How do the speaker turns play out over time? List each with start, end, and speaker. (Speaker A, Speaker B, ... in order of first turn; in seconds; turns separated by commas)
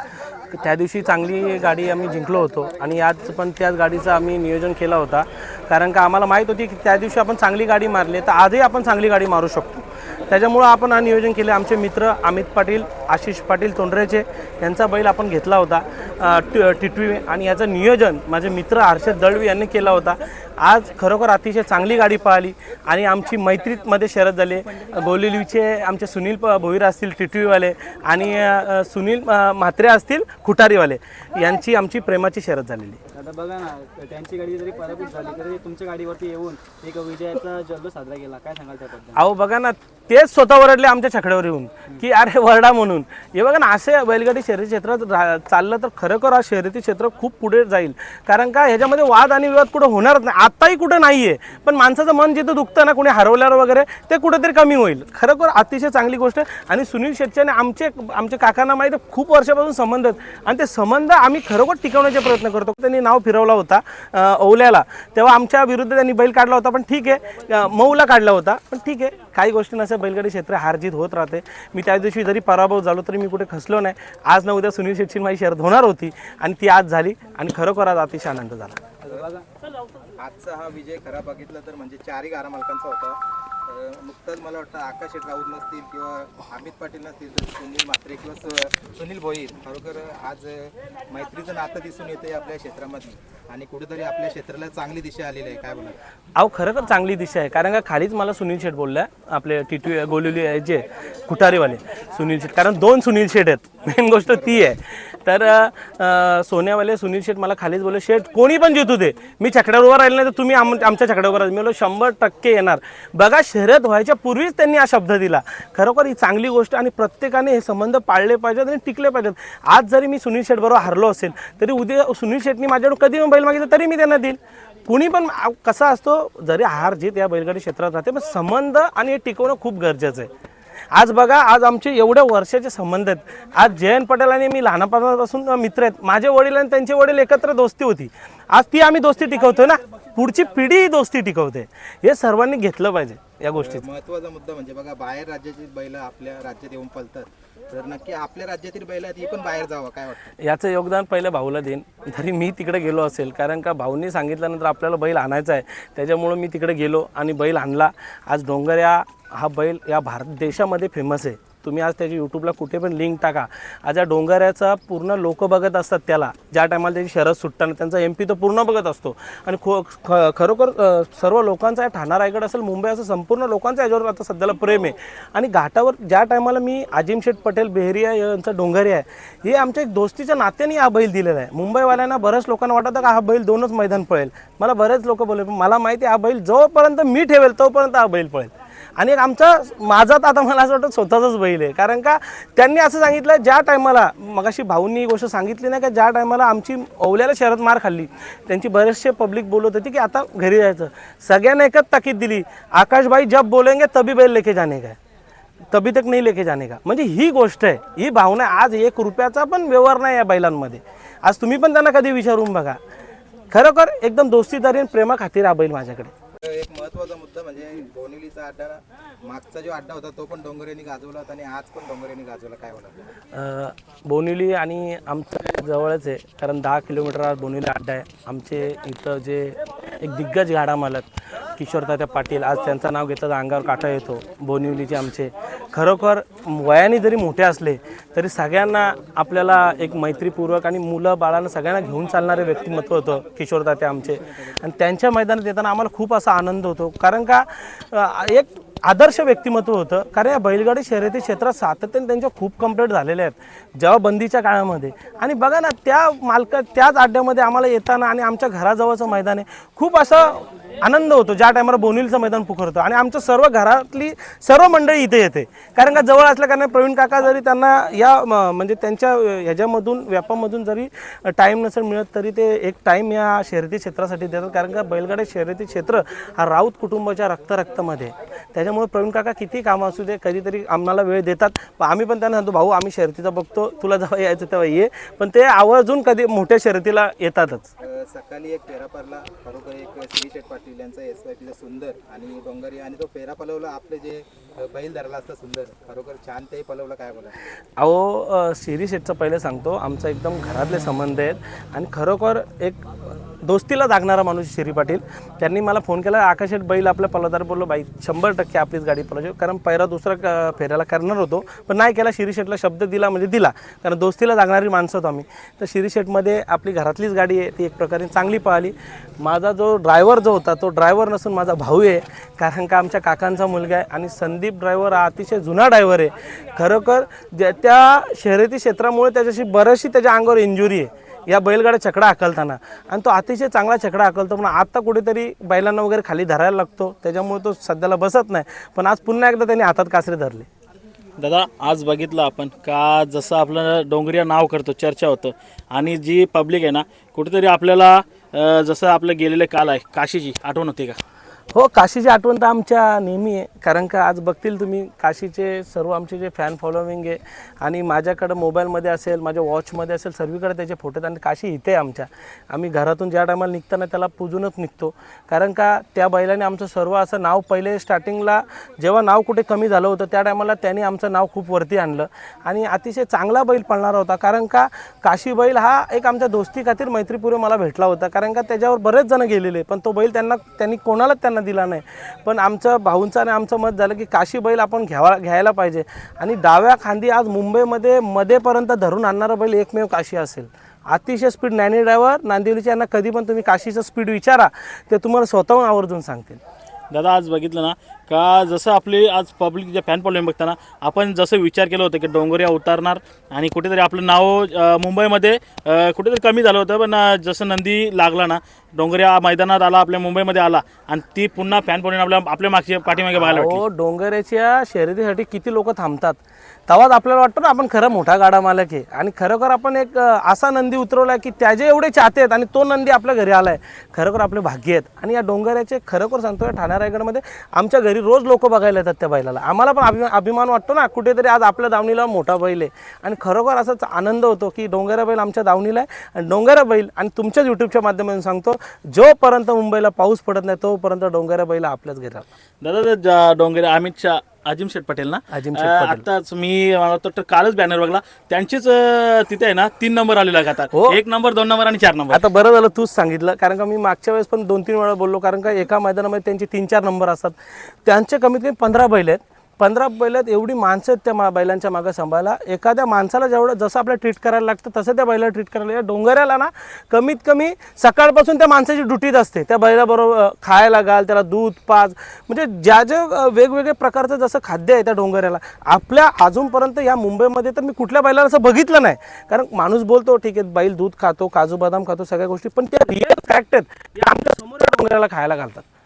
Speaker A: 0.5-33.0, Speaker B: 33.1-39.2, Speaker A: 39.1-78.8, Speaker B: 79.0-79.5, Speaker C: 80.2-96.0, Speaker A: 96.4-130.3, Speaker C: 104.3-104.7, Speaker A: 130.9-143.9, Speaker C: 143.6-150.3, Speaker A: 150.4-205.0, Speaker A: 205.7-212.8, Speaker A: 213.5-216.1, Speaker C: 216.4-223.1, Speaker A: 223.3-287.7, Speaker C: 287.8-297.4, Speaker A: 297.8-302.9, Speaker A: 303.4-340.5, Speaker D: 341.2-351.0, Speaker A: 351.5-396.4, Speaker D: 396.9-413.6, Speaker A: 413.2-442.3, Speaker D: 442.6-452.2, Speaker A: 445.3-446.0, Speaker A: 450.7-451.0, Speaker A: 452.1-485.7